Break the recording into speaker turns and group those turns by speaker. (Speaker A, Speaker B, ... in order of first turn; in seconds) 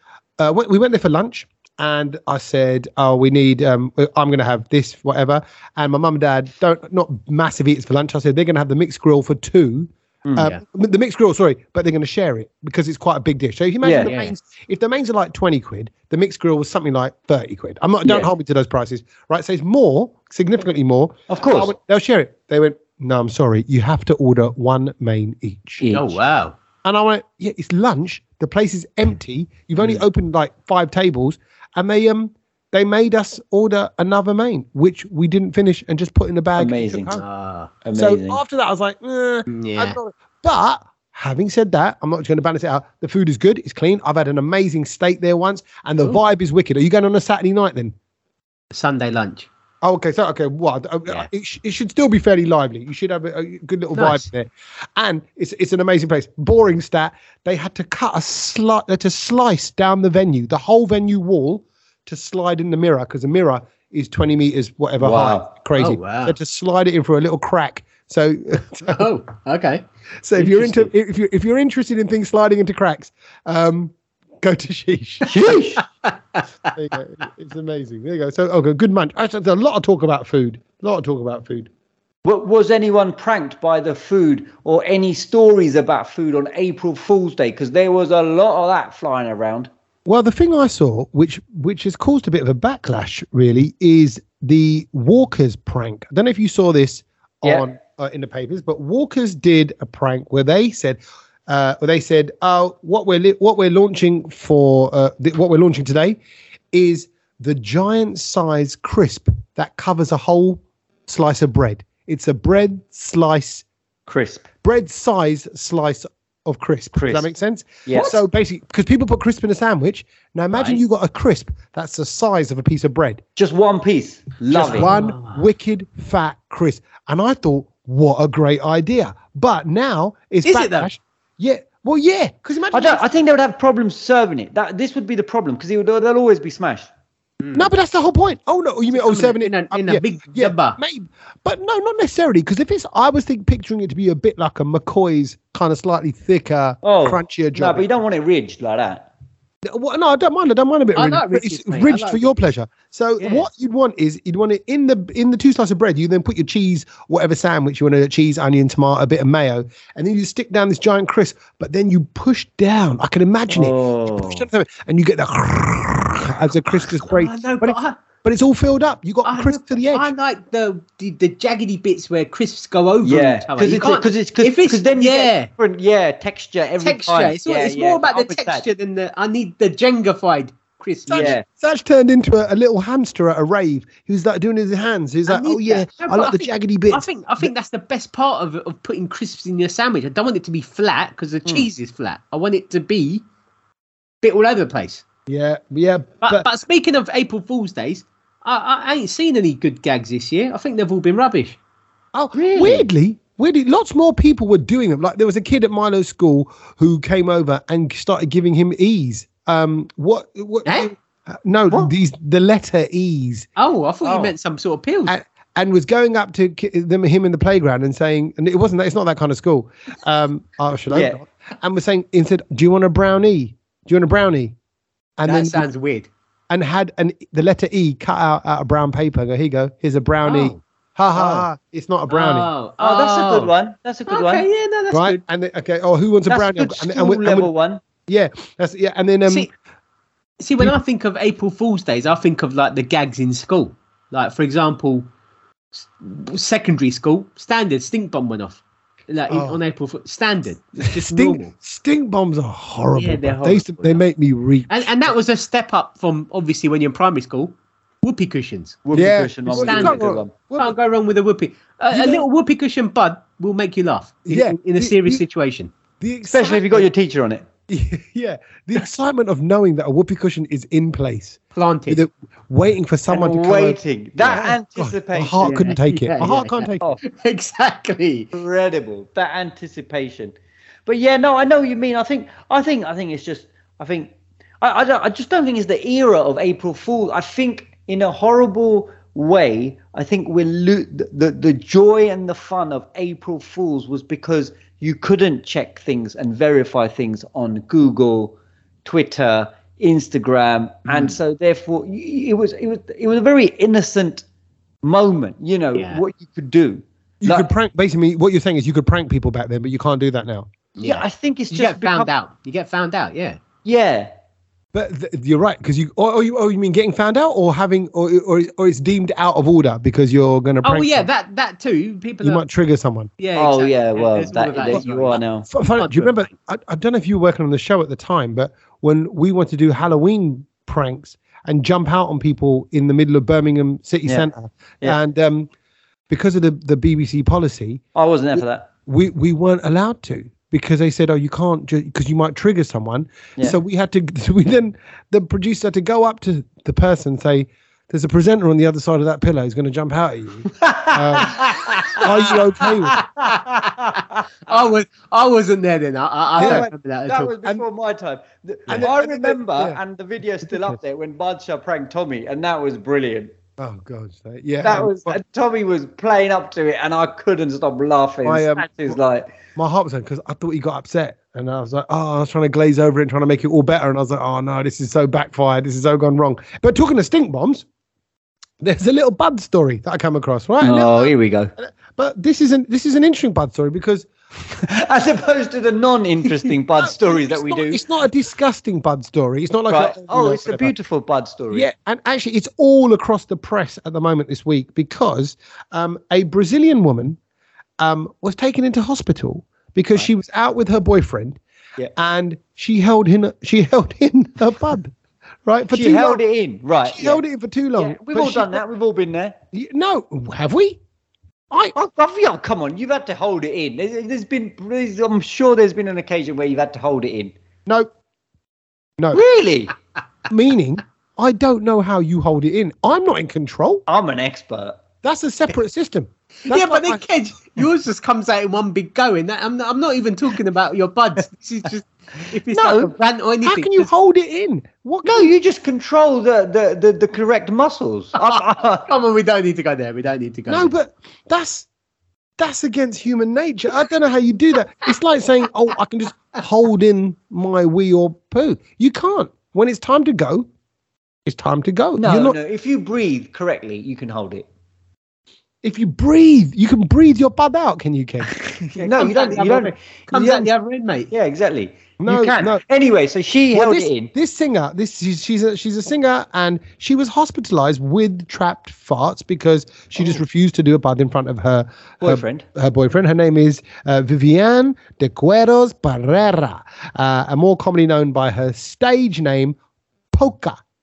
Speaker A: 0.4-25.9, 26.8-37.2, 38.0-47.9, 49.8-69.1, 70.2-75.3, 76.7-81.7, 90.1-106.2, 106.7-113.7, 114.6-123.2, 124.5-133.1, 137.5-147.9, 149.7-170.1, 181.1-187.5, 195.3-196.5, 202.1-213.5, 215.1-224.6, 225.2-225.7, 226.5-232.5, 234.9-237.5, 238.1-239.5, 249.3-249.6, 250.8-255.1, 258.9-260.8, 261.9-262.2, 264.3-265.2, 266.0-266.9, 267.7-276.9, 307.2-310.5, 314.7-321.1, 322.2-323.1, 325.5-335.5, 336.1-337.8, 338.4-351.4, 352.0-353.0, 356.4-356.7, 358.7-359.8, 360.5-360.8, 363.6-365.2, 368.2-369.0, 369.6-377.7, 378.6-384.1, 386.8-390.7, 391.5-397.2, 397.8-401.4, 402.0-404.9, 405.5-406.2, 406.9-408.6, 409.5-410.8, 420.3-423.8, 425.0-427.0, 433.4-435.3, 440.5-441.7, 442.4-450.5, 451.3-452.4, 455.6-458.3, 462.0-462.6, 463.5-479.6, 480.1-480.6
Speaker B: 10.3-10.5, 13.8-14.2, 21.3-21.7, 25.8-26.2, 36.6-37.2, 37.8-38.4, 65.0-65.5, 75.3-75.8, 82.2-89.7, 114.1-114.5, 117.0-117.3, 117.9-118.2, 123.4-124.9, 132.7-136.9, 146.8-149.1, 163.5-164.5, 173.0-178.7, 181.1-181.4, 202.3-202.9, 214.0-214.3, 220.9-221.2, 232.8-234.5, 236.3-237.8, 258.9-260.3, 266.3-267.4, 273.1-275.7, 278.3-280.3, 280.9-304.2, 304.8-307.5, 310.8-312.1, 313.6-314.1, 323.4-325.5, 337.9-338.7, 350.6-352.4, 352.9-354.6, 356.4-363.3, 364.6-369.3, 380.6-381.5, 384.6-387.8, 389.7-391.7, 405.7-407.2, 407.8-409.4, 411.8-417.3, 419.1-419.8, 423.9-424.8, 432.5-432.9, 435.1-438.9, 452.0-454.5, 458.4-460.5, 461.1-464.1, 472.0-472.4
Speaker C: 14.0-14.3, 25.9-26.6, 29.8-30.1, 37.2-37.7, 39.5-40.0, 48.7-49.5, 53.9-54.3, 65.8-66.4, 68.9-69.8, 70.4-70.9, 75.5-76.4, 120.5-120.8, 124.6-125.5, 130.4-130.9, 137.4-137.7, 138.9-140.8, 150.9-152.4, 153.2-153.5, 166.7-168.0, 169.2-175.5, 176.8-181.4, 185.3-193.2, 194.2-195.0, 196.2-201.6, 210.7-210.9, 213.6-215.2, 225.3-226.1, 230.2-230.6, 231.1-231.5, 232.1-233.5, 234.1-235.2, 240.4-245.1, 245.7-251.5, 252.9-254.0, 254.7-258.8, 259.5-260.1, 260.6-265.7, 271.6-272.0, 275.4-278.3, 300.9-301.2, 305.8-306.0, 310.8-313.4, 320.6-322.4, 323.2-325.2, 325.8-326.3, 351.9-357.3, 426.4-433.9, 438.2-440.7, 458.8-461.1